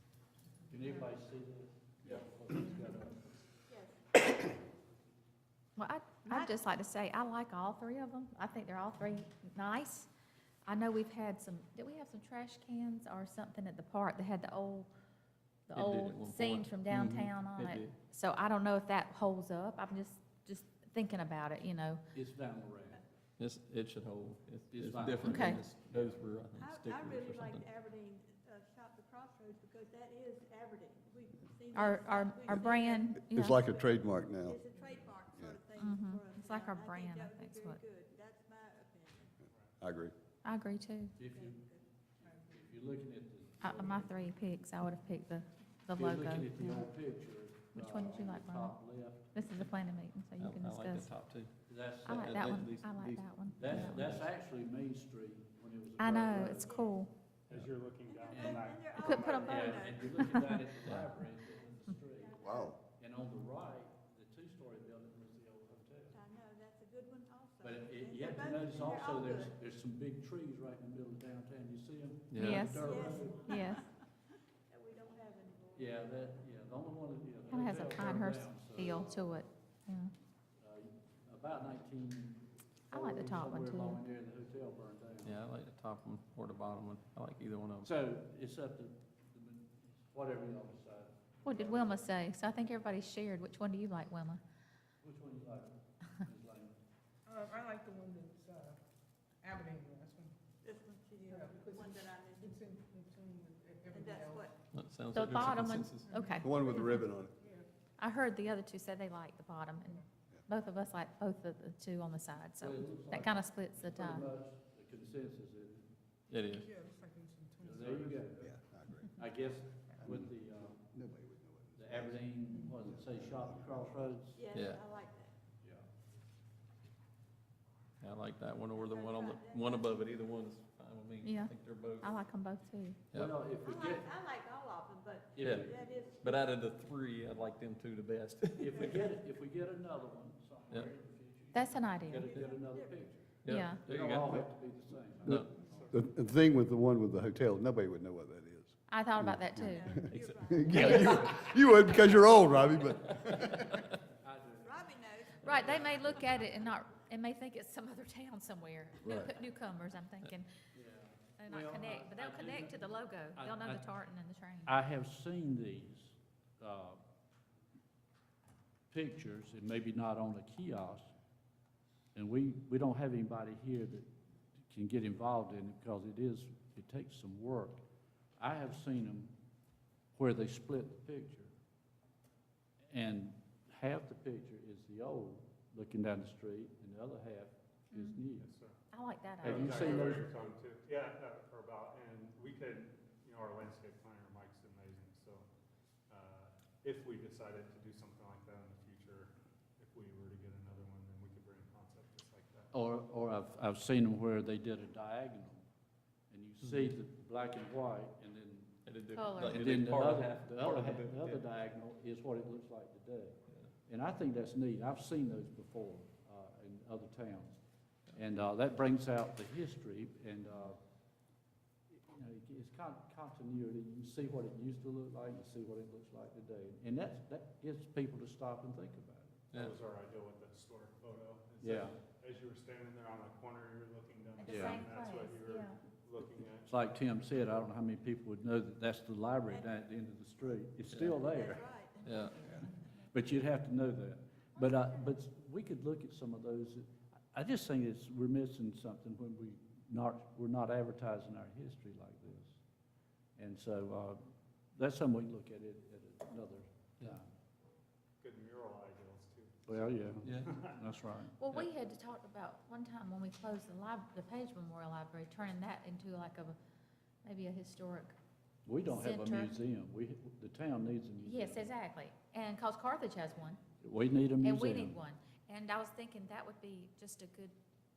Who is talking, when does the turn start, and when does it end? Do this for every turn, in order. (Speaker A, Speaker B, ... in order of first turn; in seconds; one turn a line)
Speaker A: 0.7-3.4
Speaker B: 3.7-4.2
Speaker C: 5.8-10.1
Speaker B: 6.2-6.5
Speaker C: 10.7-14.9
Speaker C: 15.7-22.0
Speaker D: 15.7-17.9
Speaker A: 22.1-23.0
Speaker D: 23.4-27.6
Speaker A: 24.7-26.0
Speaker C: 25.2-25.6
Speaker B: 26.6-39.4
Speaker C: 31.7-33.6
Speaker E: 33.2-34.6
Speaker E: 35.3-35.6
Speaker C: 35.8-37.8
Speaker F: 39.5-39.8
Speaker E: 39.8-40.1
Speaker C: 40.4-41.1
Speaker A: 41.1-41.7
Speaker B: 41.2-41.9
Speaker G: 42.2-42.6
Speaker A: 42.3-44.2
Speaker C: 43.6-46.9
Speaker A: 45.9-49.3
Speaker C: 47.7-48.8
Speaker C: 49.3-51.1
Speaker D: 50.4-54.3
Speaker A: 51.7-52.6
Speaker C: 52.0-53.9
Speaker A: 53.5-56.8
Speaker C: 56.0-57.1
Speaker B: 56.5-57.0
Speaker F: 57.5-60.2
Speaker B: 58.1-60.7
Speaker A: 58.3-58.6
Speaker C: 59.0-59.4
Speaker A: 59.4-66.2
Speaker C: 60.1-60.4
Speaker B: 62.0-62.7
Speaker E: 62.4-62.8
Speaker B: 66.1-69.5
Speaker A: 67.6-73.5
Speaker D: 72.3-72.7
Speaker C: 72.4-72.8
Speaker B: 72.7-73.9
Speaker C: 73.4-73.8
Speaker B: 74.7-76.3
Speaker A: 75.7-79.4
Speaker C: 77.5-80.1
Speaker A: 80.6-85.4
Speaker C: 82.9-84.0
Speaker D: 85.2-87.9
Speaker A: 87.8-92.1
Speaker C: 91.4-94.4
Speaker A: 95.0-96.8
Speaker G: 97.3-98.8
Speaker G: 99.4-100.3
Speaker B: 100.6-102.6
Speaker G: 101.3-104.5
Speaker B: 103.9-104.5
Speaker D: 104.7-106.1
Speaker C: 105.1-107.0
Speaker G: 106.0-107.7
Speaker E: 106.4-107.3
Speaker C: 108.0-114.2
Speaker A: 112.6-115.9
Speaker D: 116.3-116.7
Speaker G: 116.5-118.3
Speaker A: 117.6-118.5
Speaker E: 118.4-119.2
Speaker A: 119.1-120.9
Speaker E: 120.0-122.3
Speaker A: 121.8-124.5
Speaker E: 122.8-124.1
Speaker B: 124.3-125.3
Speaker D: 124.5-124.8
Speaker A: 125.6-125.9
Speaker D: 128.0-132.2
Speaker B: 128.7-130.1
Speaker C: 131.2-133.0
Speaker A: 133.1-134.1
Speaker B: 133.4-136.6
Speaker A: 135.3-135.8
Speaker D: 135.4-138.8
Speaker A: 138.6-146.1
Speaker B: 138.7-139.1
Speaker C: 141.5-142.3
Speaker B: 142.1-143.3
Speaker D: 143.4-144.4
Speaker C: 143.4-143.8
Speaker F: 145.3-146.0
Speaker E: 145.9-153.7
Speaker C: 148.9-150.0
Speaker B: 149.5-153.0
Speaker C: 150.8-151.1
Speaker D: 150.8-151.3
Speaker D: 153.1-153.8
Speaker A: 154.1-154.9
Speaker B: 154.5-156.6
Speaker C: 155.4-160.5
Speaker E: 159.0-159.3
Speaker A: 160.7-163.9
Speaker C: 161.4-164.8
Speaker A: 164.7-167.0
Speaker A: 168.9-171.1
Speaker A: 172.1-177.8
Speaker A: 178.4-179.3
Speaker A: 180.1-181.5
Speaker A: 182.9-188.5
Speaker C: 187.9-188.2
Speaker F: 188.4-188.8
Speaker C: 188.9-190.2
Speaker F: 189.4-195.5
Speaker A: 189.4-190.4
Speaker F: 196.1-202.7
Speaker A: 202.7-205.7
Speaker A: 206.3-208.8
Speaker D: 208.8-211.4
Speaker C: 209.1-209.6
Speaker A: 209.4-217.6
Speaker A: 218.1-220.8
Speaker A: 221.9-229.4
Speaker F: 229.5-236.7
Speaker A: 231.6-231.9
Speaker C: 234.4-235.8
Speaker A: 234.5-234.8
Speaker A: 236.6-241.7
Speaker B: 239.4-239.8
Speaker B: 241.0-242.5
Speaker D: 242.0-242.4
Speaker A: 242.5-252.6
Speaker C: 244.6-245.1
Speaker A: 253.4-254.2
Speaker A: 254.7-257.3
Speaker F: 258.2-260.8
Speaker A: 259.7-261.3
Speaker D: 260.2-260.5
Speaker C: 261.4-266.6
Speaker C: 267.2-268.1
Speaker A: 268.6-271.6
Speaker C: 268.8-269.5
Speaker C: 271.2-273.6
Speaker A: 273.8-275.0
Speaker C: 274.4-277.5